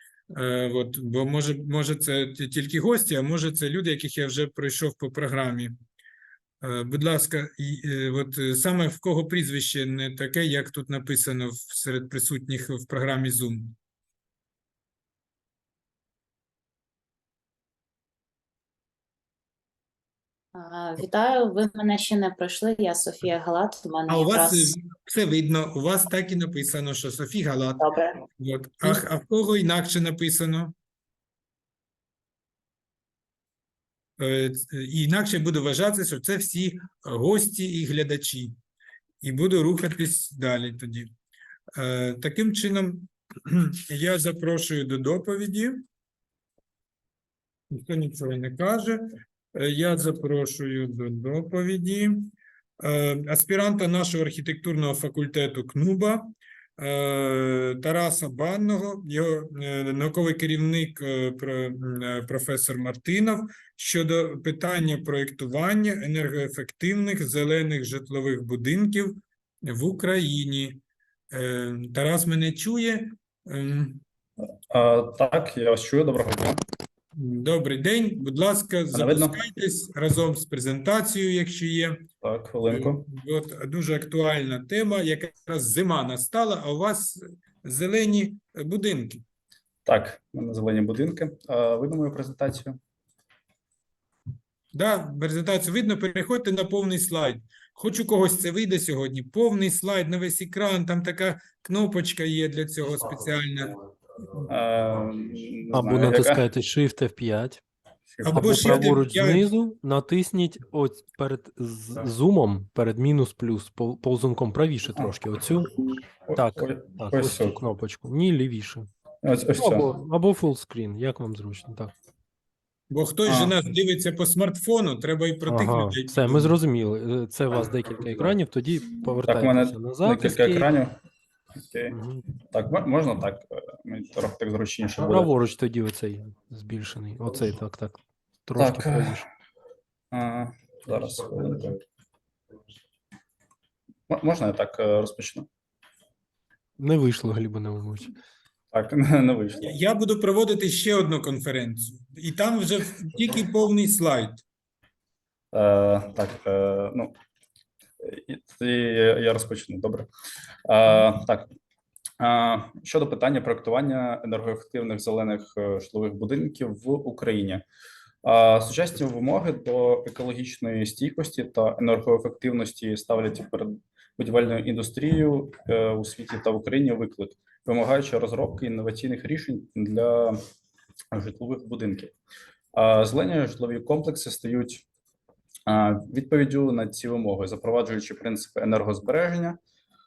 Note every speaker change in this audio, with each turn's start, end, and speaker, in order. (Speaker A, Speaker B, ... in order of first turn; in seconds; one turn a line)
Speaker A: 0.3-5.8
Speaker A: 6.6-13.8
Speaker B: 20.5-24.7
Speaker A: 24.1-27.9
Speaker B: 27.8-28.2
Speaker A: 28.4-30.7
Speaker A: 34.2-38.5
Speaker A: 39.2-41.1
Speaker A: 41.7-45.8
Speaker A: 47.7-74.0
Speaker C: 74.7-76.6
Speaker A: 77.1-82.0
Speaker C: 78.9-79.4
Speaker C: 82.2-83.0
Speaker A: 82.7-89.2
Speaker C: 89.8-92.8
Speaker A: 94.7-103.8
Speaker C: 104.5-106.4
Speaker D: 105.7-107.6
Speaker C: 108.1-108.7
Speaker A: 108.2-109.5
Speaker D: 108.3-115.7
Speaker C: 116.3-117.6
Speaker D: 116.3-118.9
Speaker C: 119.2-119.9
Speaker D: 119.5-121.9
Speaker A: 122.9-126.5
Speaker C: 123.2-123.5
Speaker D: 125.5-130.7
Speaker C: 129.2-130.9
Speaker C: 131.6-132.0
Speaker D: 131.9-132.2
Speaker C: 132.5-135.3
Speaker D: 135.1-139.2
Speaker C: 138.6-139.2
Speaker C: 140.1-141.8
Speaker C: 144.1-145.4
Speaker D: 146.8-148.1
Speaker C: 148.7-149.8
Speaker A: 149.6-154.4
Speaker C: 155.5-157.1
Speaker C: 158.0-160.1
Speaker C: 160.7-161.5
Speaker C: 162.2-167.6
Speaker C: 168.2-180.4
Speaker C: 181.1-182.1
Speaker C: 182.7-184.8
Speaker C: 185.7-189.6